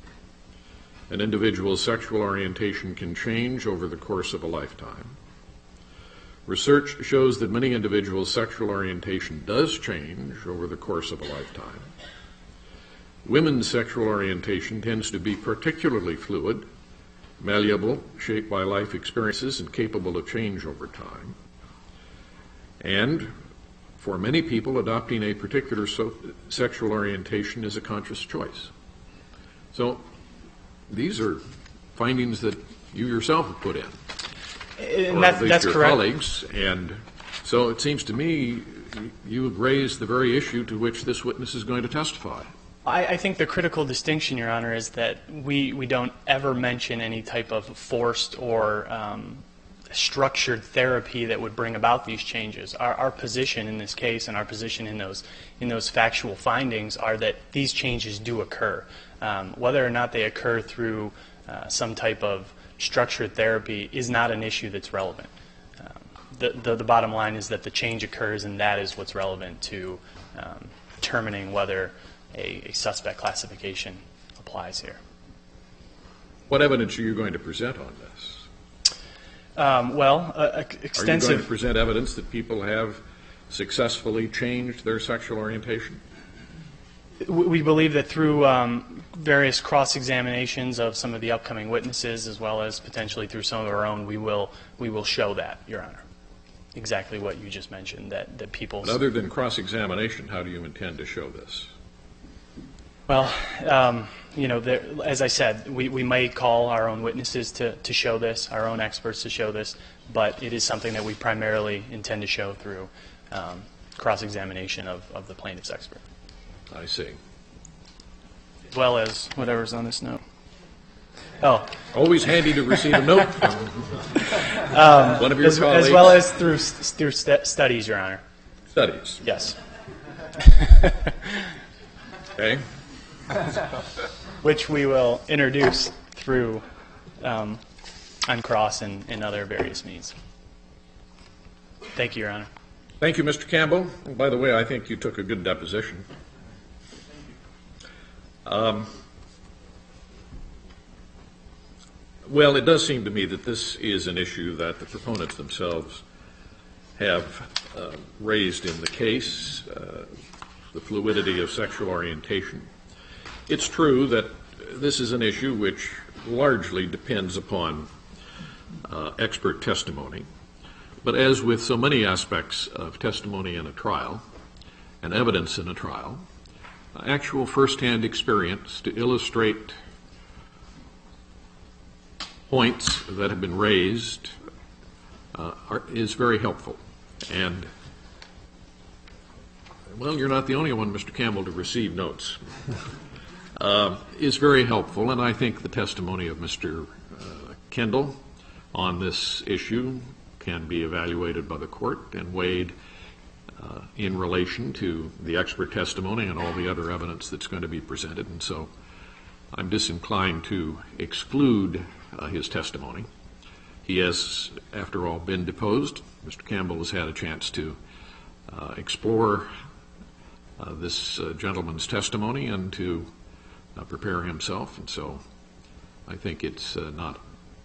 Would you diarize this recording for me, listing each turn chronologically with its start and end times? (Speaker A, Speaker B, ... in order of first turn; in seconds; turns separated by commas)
Speaker A: 1.1-5.2, Speaker A: 6.5-11.9, Speaker A: 13.2-16.7, Speaker A: 17.4-21.4, Speaker A: 22.8-23.3, Speaker A: 24.0-28.7, Speaker A: 29.7-30.1, Speaker A: 30.9-31.4, Speaker A: 32.0-34.0, Speaker B: 34.8-36.0, Speaker A: 35.1-42.5, Speaker B: 42.9-75.0, Speaker A: 76.5-78.5, Speaker B: 79.6-81.5, Speaker A: 81.0-86.0, Speaker B: 87.2-96.0, Speaker B: 96.8-99.0, Speaker A: 98.8-101.7, Speaker B: 103.1-116.0, Speaker A: 116.7-117.2, Speaker B: 118.7-120.2, Speaker B: 121.4-121.7, Speaker A: 121.9-126.2, Speaker B: 122.5-123.2, Speaker B: 124.6-128.2, Speaker A: 128.7-129.2, Speaker B: 129.2-129.6, Speaker B: 130.5-131.3, Speaker A: 132.3-132.7, Speaker B: 134.4-136.7, Speaker B: 137.2-137.6, Speaker B: 138.3-140.2, Speaker B: 141.9-142.5, Speaker A: 143.0-146.1, Speaker A: 148.5-148.9, Speaker A: 152.2-156.0, Speaker A: 157.0-160.1, Speaker A: 160.7-162.7, Speaker A: 163.5-167.9, Speaker A: 168.8-170.3, Speaker A: 171.0-174.2, Speaker A: 175.0-176.2, Speaker A: 176.9-179.8, Speaker A: 182.5-184.3, Speaker A: 185.3-187.7, Speaker A: 189.9-192.5, Speaker A: 193.6-198.2, Speaker A: 198.7-202.8, Speaker A: 203.6-208.7, Speaker A: 209.5-213.1, Speaker A: 213.8-217.8, Speaker A: 218.5-219.5, Speaker A: 220.6-223.1, Speaker A: 223.8-225.2, Speaker A: 226.1-227.2